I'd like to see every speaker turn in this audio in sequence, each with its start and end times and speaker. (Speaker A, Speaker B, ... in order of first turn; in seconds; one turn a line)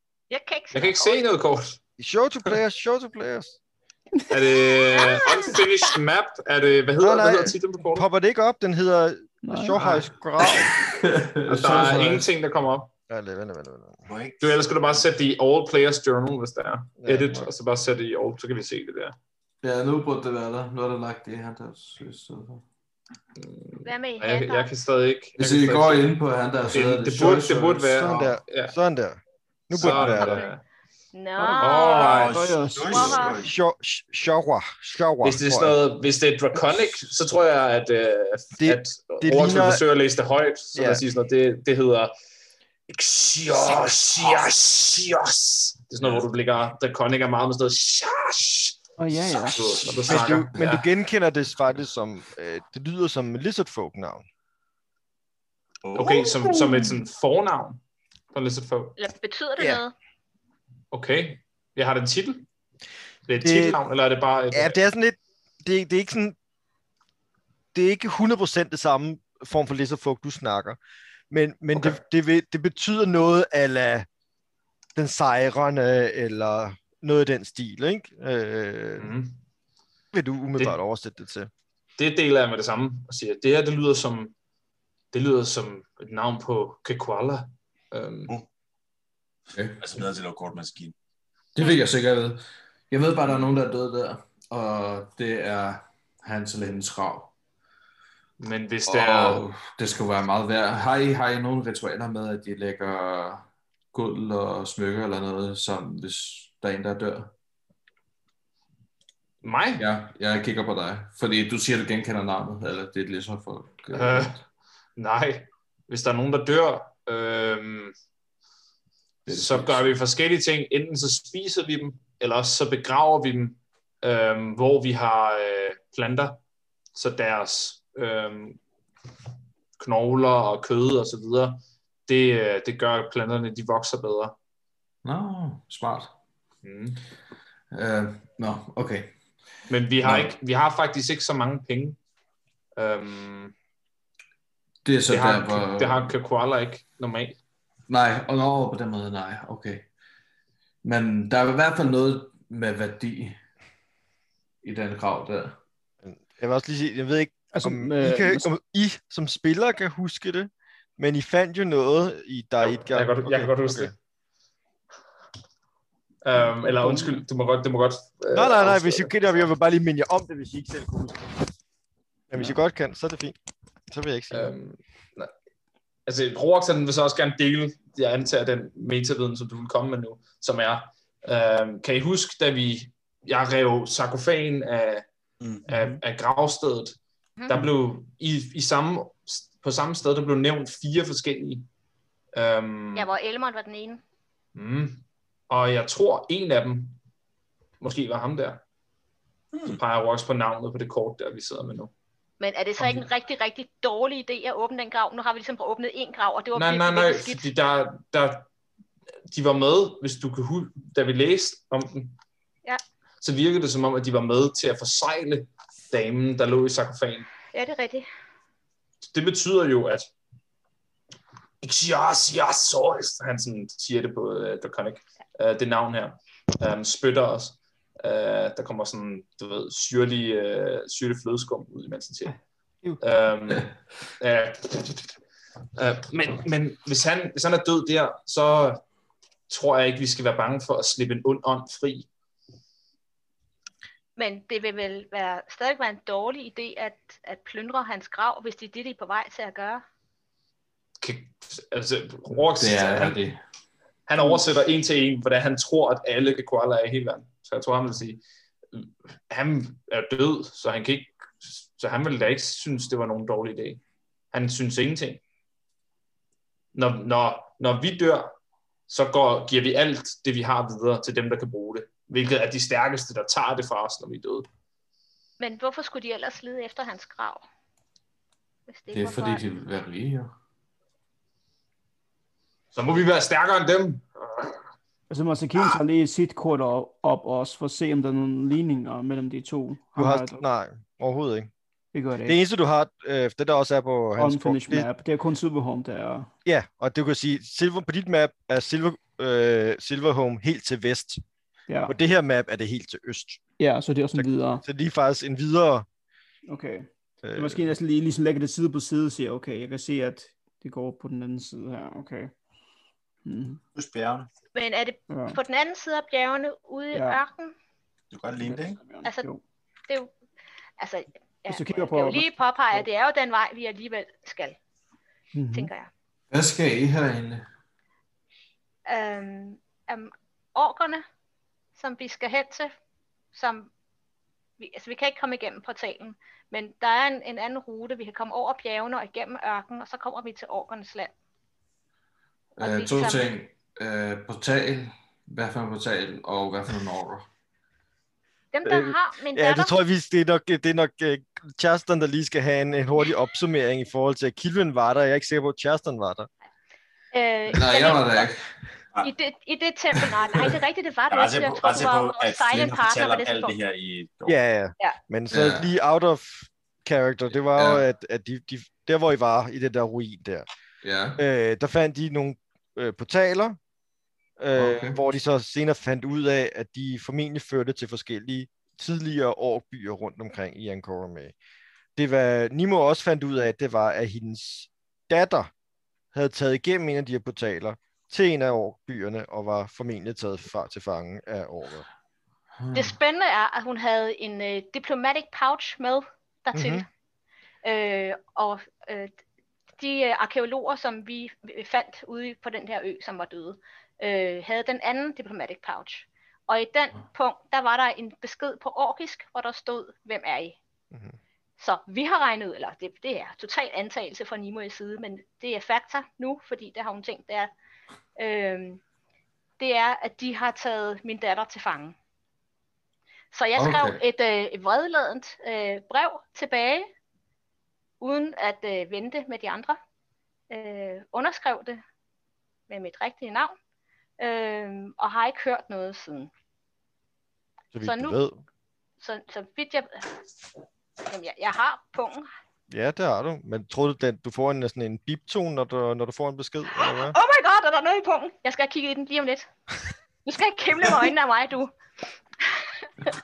Speaker A: 0.3-1.2
Speaker B: 0.7-1.8
Speaker C: 2.0-3.6
Speaker B: 4.3-8.1
Speaker A: 4.9-5.5
Speaker C: 7.0-10.7
Speaker D: 9.4-9.9
Speaker E: 10.5-12.3
Speaker B: 11.5-12.9
Speaker C: 13.1-14.1
Speaker F: 14.1-15.0
Speaker B: 14.4-19.1
Speaker C: 17.0-17.5
Speaker E: 19.6-22.6
Speaker B: 23.4-26.2
Speaker A: 23.8-24.7
Speaker E: 25.4-28.3
Speaker B: 26.7-28.7
Speaker C: 28.0-30.5
Speaker B: 29.8-30.6
Speaker A: 30.1-30.5
Speaker A: 31.1-32.2
Speaker D: 31.4-33.4
Speaker B: 31.5-32.4
Speaker F: 31.9-33.5
Speaker A: 32.9-33.4
Speaker C: 33.2-35.8
Speaker B: 35.2-42.1
Speaker C: 38.6-39.8
Speaker C: 40.7-41.0
Speaker B: 42.9-50.9
Speaker D: 49.0-49.9
Speaker F: 49.5-50.0
Speaker C: 50.0-54.2
Speaker F: 55.8-56.9
Speaker B: 55.9-57.8
Speaker B: 58.3-59.0
Speaker A: 59.0-59.9
Speaker C: 59.6-59.8
Speaker B: 60.9-62.5
Speaker B: 63.3-64.8
Speaker C: 63.4-63.8
Speaker C: 64.5-66.4
Speaker C: 67.7-70.8
Speaker C: 71.3-74.1
Speaker C: 75.0-79.1
Speaker B: 79.0-79.4
Speaker C: 80.1-81.5
Speaker B: 82.0-84.3
Speaker B: 85.1-88.3
Speaker E: 89.5-89.8
Speaker F: 89.8-90.9
Speaker E: 91.5-97.3
Speaker B: 98.4-99.4
Speaker E: 98.9-107.3
Speaker B: 109.4-109.8
Speaker E: 109.8-114.4
Speaker B: 113.9-114.3
Speaker B: 115.0-117.9
Speaker E: 119.2-119.9
Speaker B: 119.3-126.4
Speaker B: 126.9-128.6
Speaker B: 129.8-134.3
Speaker E: 135.0-136.1
Speaker B: 136.6-137.0
Speaker E: 137.7-139.1
Speaker B: 139.7-142.0
Speaker E: 140.0-140.3
Speaker B: 142.8-143.5
Speaker E: 144.8-146.1
Speaker B: 145.1-147.4
Speaker E: 147.9-149.9
Speaker E: 150.8-153.4
Speaker E: 154.6-155.6
Speaker C: 156.0-163.9
Speaker D: 157.5-158.5
Speaker B: 162.6-163.9
Speaker B: 166.2-169.5
Speaker D: 166.4-167.2
Speaker C: 168.3-171.5
Speaker C: 172.3-173.3
Speaker C: 173.9-174.5
Speaker B: 174.3-175.3
Speaker B: 176.1-185.0
Speaker B: 185.7-187.0
Speaker D: 185.7-185.9
Speaker A: 187.4-187.7
Speaker B: 187.5-191.7
Speaker B: 192.3-193.1
Speaker A: 192.9-194.0
Speaker B: 194.5-197.0
Speaker B: 197.8-198.6
Speaker F: 199.5-199.8
Speaker B: 199.7-201.9
Speaker A: 202.4-207.5
Speaker B: 206.5-208.5
Speaker B: 209.3-212.2
Speaker B: 213.2-217.3
Speaker A: 217.5-218.1
Speaker B: 219.1-220.1
Speaker B: 221.6-232.4
Speaker B: 233.0-235.1
Speaker B: 235.8-238.8
Speaker B: 239.5-242.1
Speaker A: 244.2-249.8
Speaker B: 251.0-253.2
Speaker E: 252.6-253.4
Speaker B: 254.1-258.2
Speaker B: 258.7-263.8
Speaker B: 264.3-265.2
Speaker B: 266.7-268.3
Speaker B: 268.9-274.5
Speaker A: 275.4-277.4
Speaker A: 278.7-279.4
Speaker E: 278.9-280.3
Speaker B: 282.7-284.6
Speaker D: 285.1-290.4
Speaker C: 290.0-291.5
Speaker D: 291.9-292.4
Speaker C: 292.2-294.9
Speaker D: 294.2-296.3
Speaker C: 296.4-301.2
Speaker D: 301.7-301.9
Speaker C: 301.9-303.4
Speaker D: 303.6-304.6
Speaker C: 304.1-305.9
Speaker D: 306.5-312.3
Speaker C: 307.2-307.8
Speaker D: 313.2-313.6
Speaker F: 313.7-314.3
Speaker A: 314.5-317.5
Speaker D: 315.1-315.4
Speaker D: 316.9-317.2
Speaker F: 318.1-318.8
Speaker D: 318.3-319.4
Speaker A: 320.8-324.6
Speaker D: 321.5-322.9
Speaker D: 325.3-325.7
Speaker A: 325.5-325.9
Speaker E: 326.3-327.4
Speaker A: 328.9-331.0
Speaker A: 331.7-332.7
Speaker A: 333.3-333.7
Speaker A: 334.6-341.1
Speaker E: 342.6-347.3
Speaker A: 342.6-343.2
Speaker A: 348.5-349.7
Speaker C: 348.6-356.3
Speaker A: 357.1-358.3
Speaker E: 357.5-358.5
Speaker A: 359.0-363.6
Speaker F: 361.1-364.4
Speaker C: 364.3-370.4
Speaker E: 365.3-365.7
Speaker E: 367.5-367.8
Speaker E: 370.8-371.2
Speaker C: 371.2-373.6
Speaker C: 374.4-381.3
Speaker E: 374.5-375.0
Speaker C: 381.9-385.5
Speaker C: 386.1-391.9
Speaker E: 392.6-392.9
Speaker A: 392.7-396.9
Speaker C: 396.5-396.8
Speaker A: 397.6-399.1
Speaker A: 399.8-410.6
Speaker C: 410.9-411.2
Speaker A: 411.6-417.5
Speaker A: 418.2-418.8
Speaker A: 419.6-421.9
Speaker A: 423.3-426.9
Speaker E: 423.5-424.0
Speaker A: 428.0-429.8
Speaker A: 430.5-431.8
Speaker A: 432.7-433.5
Speaker A: 434.2-436.3
Speaker C: 437.7-438.4
Speaker A: 437.8-438.2
Speaker A: 439.0-440.1
Speaker A: 441.0-442.3
Speaker C: 442.7-447.2
Speaker A: 446.7-449.5
Speaker A: 450.2-451.7
Speaker A: 452.4-452.9